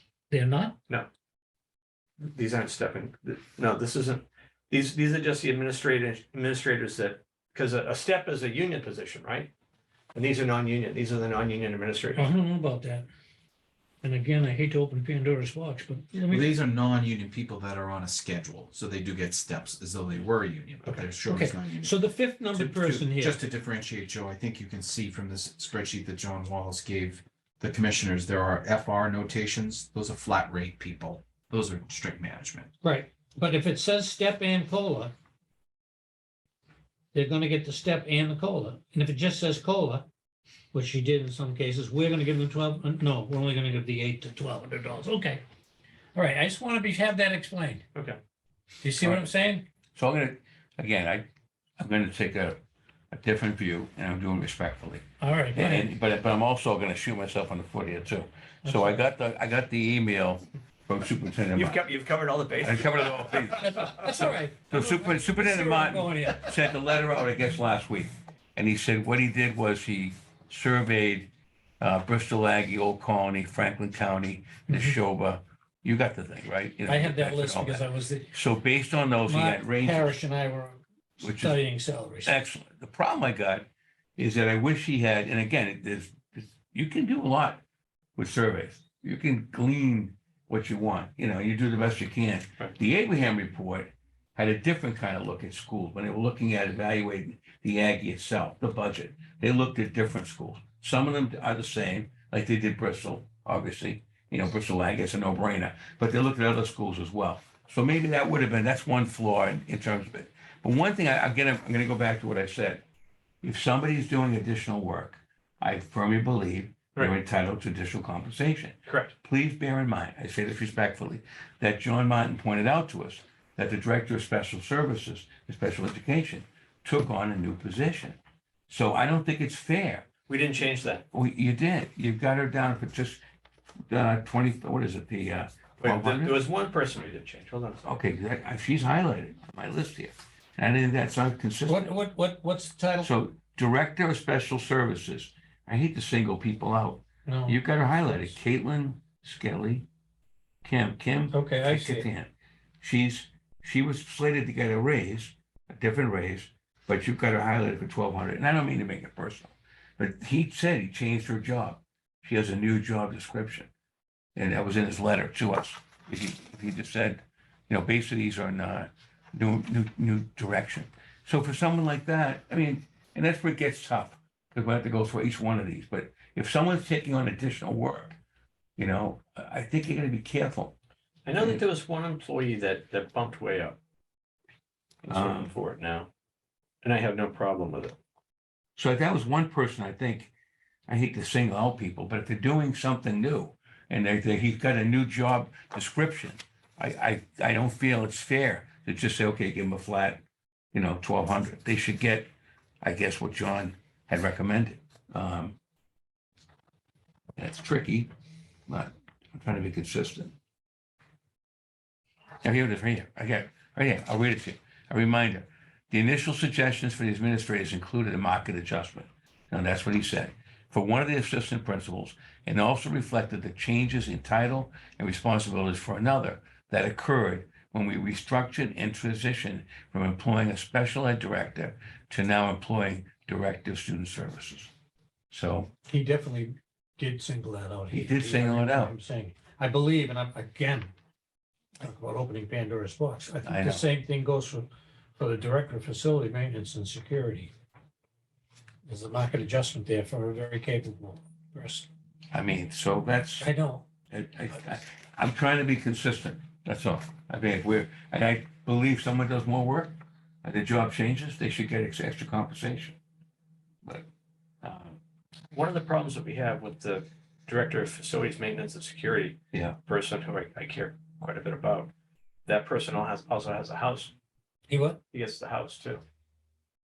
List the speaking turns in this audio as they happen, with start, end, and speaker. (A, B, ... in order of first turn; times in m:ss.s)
0:00.3-0:00.8 A
0:02.2-0:09.5 B
0:10.1-0:12.3 B
0:12.2-0:13.1 A
0:14.0-0:16.5 A
0:16.3-0:22.0 C
0:21.2-0:23.4 A
0:22.5-0:32.7 C
0:32.8-0:35.1 A
0:37.1-0:40.0 A
0:40.7-0:45.4 A
0:46.1-0:47.8 A
0:48.8-0:49.6 A
0:49.0-0:49.3 D
0:50.0-0:51.3 D
0:51.8-0:52.6 D
0:53.1-1:01.8 D
0:55.2-0:55.9 A
0:58.6-0:59.0 A
1:01.5-1:04.0 B
1:02.6-1:11.3 D
1:03.6-1:06.7 A
1:11.8-1:20.2 D
1:14.7-1:15.0 A
1:16.9-1:18.3 A
1:19.2-1:22.3 A
1:21.2-1:21.6 D
1:22.2-1:27.6 D
1:28.2-1:52.8 D
1:53.4-2:08.2 D
1:58.8-1:59.1 B
2:08.7-2:10.1 D
2:10.3-2:11.0 B
2:11.1-2:13.2 D
2:13.9-2:16.4 D
2:15.8-2:17.8 B
2:17.8-2:21.9 D
2:21.7-2:23.1 A
2:23.0-2:29.8 D
2:27.2-2:27.6 A
2:30.6-2:32.3 D
2:31.3-2:32.1 A
2:32.8-2:43.7 D
2:44.4-2:58.2 D
2:58.8-3:00.7 D
3:01.2-3:03.8 B
3:01.3-3:01.6 D
3:05.0-3:06.1 B
3:05.1-3:05.5 D
3:06.8-3:08.0 B
3:08.8-3:10.3 D
3:10.9-3:20.2 D
3:20.7-3:22.3 D
3:22.8-3:25.6 D
3:27.4-3:28.1 D
3:28.7-3:30.3 D
3:32.4-3:54.7 D
3:55.3-3:55.7 D
3:55.8-4:00.9 A
3:57.9-3:58.9 D
4:01.8-4:07.5 A
4:03.4-4:03.8 D
4:08.9-4:11.9 A
4:12.3-4:13.5 D
4:13.4-4:13.8 A
4:14.1-4:23.0 D
4:24.6-4:25.0 D
4:25.5-4:31.9 B
4:32.4-4:34.1 B
4:34.7-4:35.0 A
4:35.1-4:36.0 B